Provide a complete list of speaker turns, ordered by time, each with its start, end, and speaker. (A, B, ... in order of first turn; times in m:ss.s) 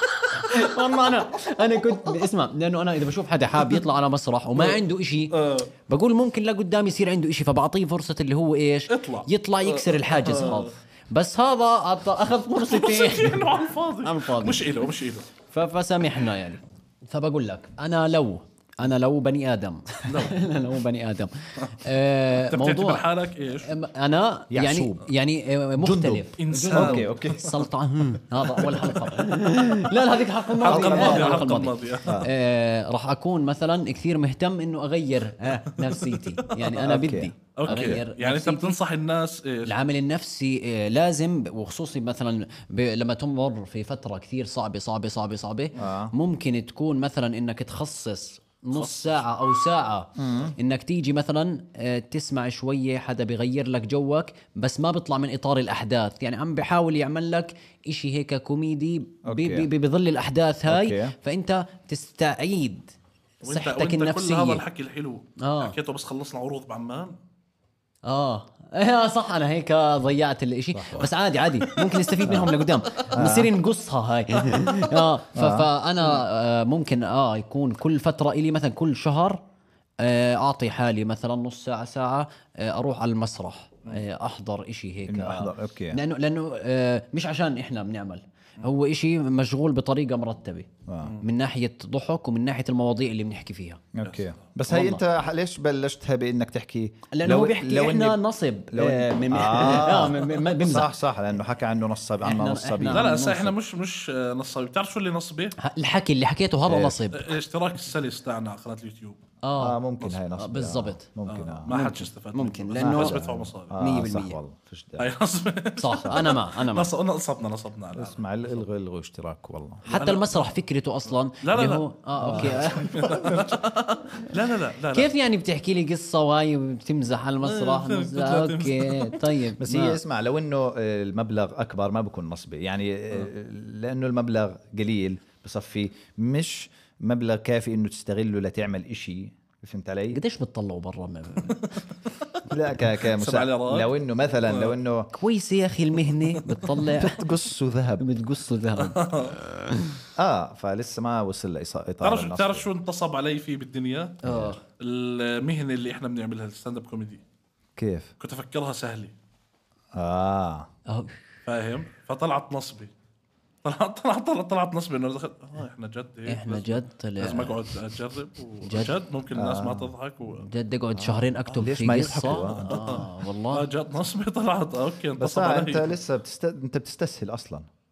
0:00.3-0:05.3 A
0:05.3-0:05.7 B
0:05.9-0:14.6 A
0:08.9-0:10.7 B
0:12.6-0:15.3 B
0:15.5-0:23.1 A
0:20.1-0:20.4 B
0:22.4-0:23.7 B
0:23.7-0:38.8 A
0:24.5-0:25.1 C
0:25.8-0:27.5 C
0:26.4-0:27.3 B
0:28.5-0:29.2 B
0:30.6-0:32.2 B
0:30.7-0:31.4 C
0:32.0-0:32.3 C
0:35.8-0:36.8 B
0:36.8-0:38.0 C
0:37.6-0:39.7 B
0:39.7-1:02.9 A
0:45.8-0:46.1 C
0:48.8-0:49.3 B
0:50.2-0:50.5 C
0:59.2-0:59.7 C
1:00.7-1:01.2 C
1:03.4-1:07.2 B
1:03.4-1:04.6 A
1:05.4-1:05.8 A
1:08.0-1:19.4 A
1:10.7-1:11.1 C
1:11.6-1:12.2 B
1:12.3-1:12.5 C
1:13.1-1:13.5 C
1:15.4-1:15.7 C
1:20.0-1:30.7 A
1:25.1-1:26.0 C
1:30.9-1:31.2 C
1:31.2-1:33.8 A
1:33.9-1:38.2 C
1:34.0-1:34.3 B
1:34.7-1:35.0 A
1:37.1-1:40.9 A
1:38.7-1:43.2 C
1:42.2-1:43.5 A
1:42.9-1:45.6 B
1:45.6-1:47.4 A
1:46.7-1:47.0 C
1:47.1-1:49.2 B
1:49.4-1:49.8 A
1:49.6-1:51.7 C
1:50.4-1:51.1 A
1:51.3-1:53.8 B
1:51.7-1:53.2 A
1:52.8-1:55.1 C
1:53.8-1:54.4 A
1:55.0-1:58.2 B
1:55.8-1:56.9 A
1:57.9-1:59.9 C
1:59.8-2:02.9 A
1:59.9-2:00.5 B
2:01.4-2:05.1 B
2:02.2-2:03.6 C
2:04.9-2:10.0 A
2:07.4-2:09.3 B
2:09.6-2:20.2 C
2:20.1-2:21.7 A
2:22.5-2:25.1 C
2:22.9-2:23.9 B
2:24.5-2:24.8 B
2:25.1-2:27.2 A
2:27.0-2:28.0 C
2:28.0-2:30.0 A
2:28.8-2:29.4 B
2:30.2-2:32.7 C
2:32.0-2:34.2 B
2:34.2-2:34.5 C
2:34.2-2:34.6 A
2:34.8-2:37.2 B
2:37.8-2:38.1 C
2:38.2-2:39.1 B
2:40.0-2:40.7 C
2:40.9-2:41.1 A
2:41.5-2:42.9 B
2:43.6-2:50.5 B
2:46.3-2:47.6 A
2:48.6-2:49.0 A
2:49.3-2:49.9 C
2:50.3-2:53.7 A
2:51.0-2:53.0 C
2:52.6-2:55.9 B
2:55.2-2:57.7 C